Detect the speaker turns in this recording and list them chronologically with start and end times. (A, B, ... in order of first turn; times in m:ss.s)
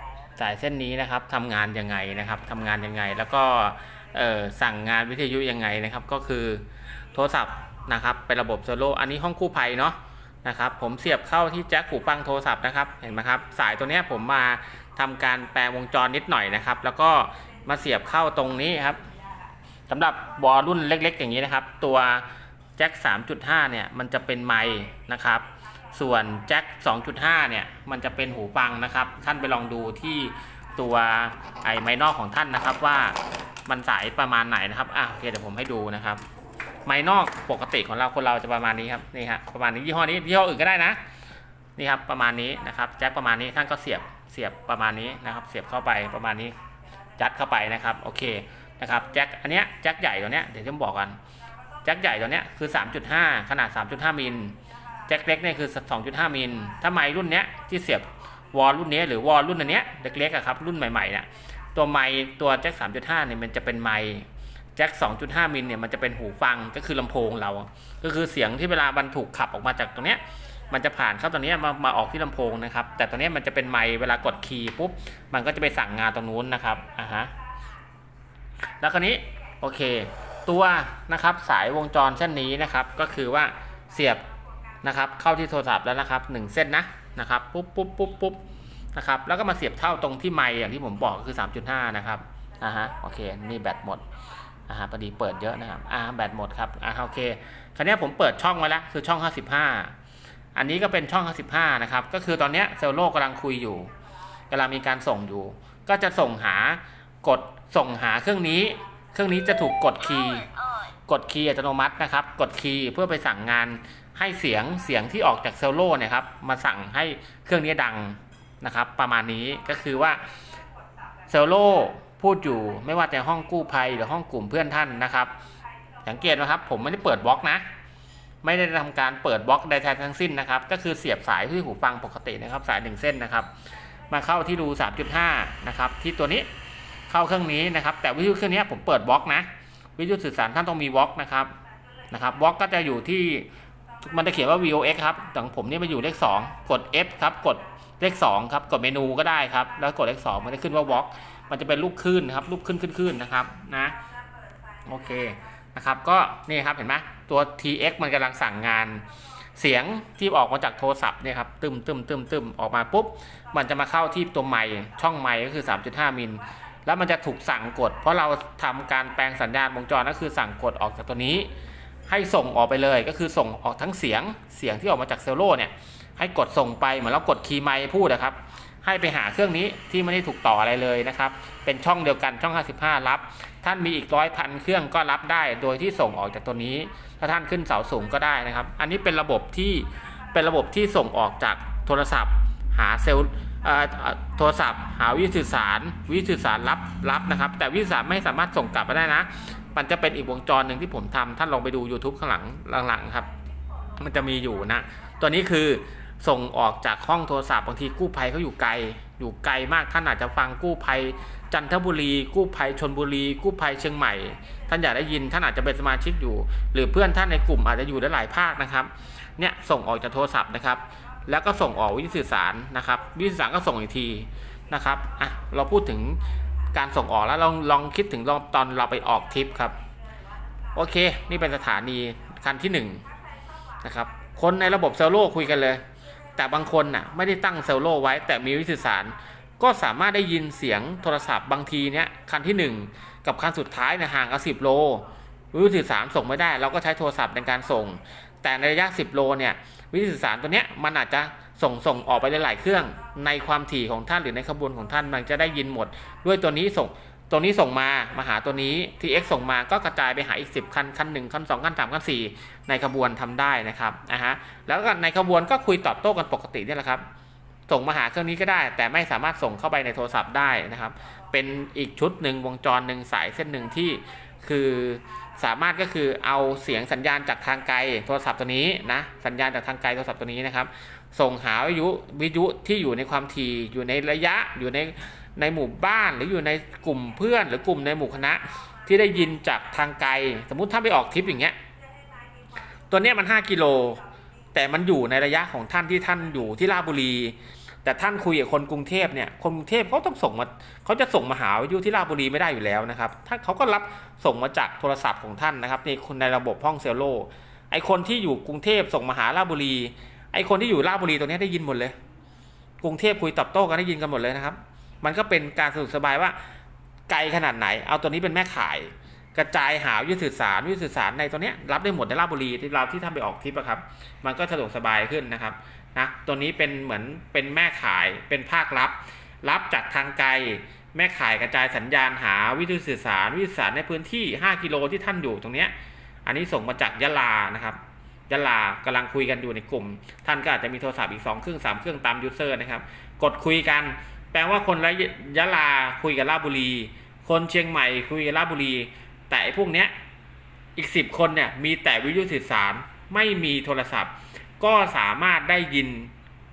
0:00.4-0:19.0 A
0:19.9-0:36.2 A
0:36.8-0:41.0 A
0:41.8-0:46.6 A
0:47.2-0:51.2 A
0:51.8-1:17.3 A
1:18.8-1:24.3 A
1:24.8-1:28.4 A
1:29.0-1:34.0 A
1:34.7-1:40.0 A
1:40.6-1:43.9 A
1:44.5-1:50.5 A
1:51.1-2:00.2 A
2:01.3-2:05.3 A
2:06.0-2:07.6 A
2:08.4-2:13.5 A
2:14.1-2:16.5 A
2:17.1-2:21.5 A
2:22.1-2:23.5 A
2:24.0-2:34.0 A
2:34.9-2:39.0 A
2:39.6-2:51.5 A
2:52.1-3:23.3 A
3:24.0-3:46.2 A
3:46.7-3:49.8 A
3:50.7-3:53.0 A
3:53.8-3:55.8 A
3:56.3-4:27.0 A
4:27.7-4:51.6 A
4:52.9-4:54.0 A
4:54.5-5:12.0 A
5:12.8-5:16.4 A
5:17.1-5:35.7 A
5:36.2-5:49.9 A
5:50.8-5:56.1 A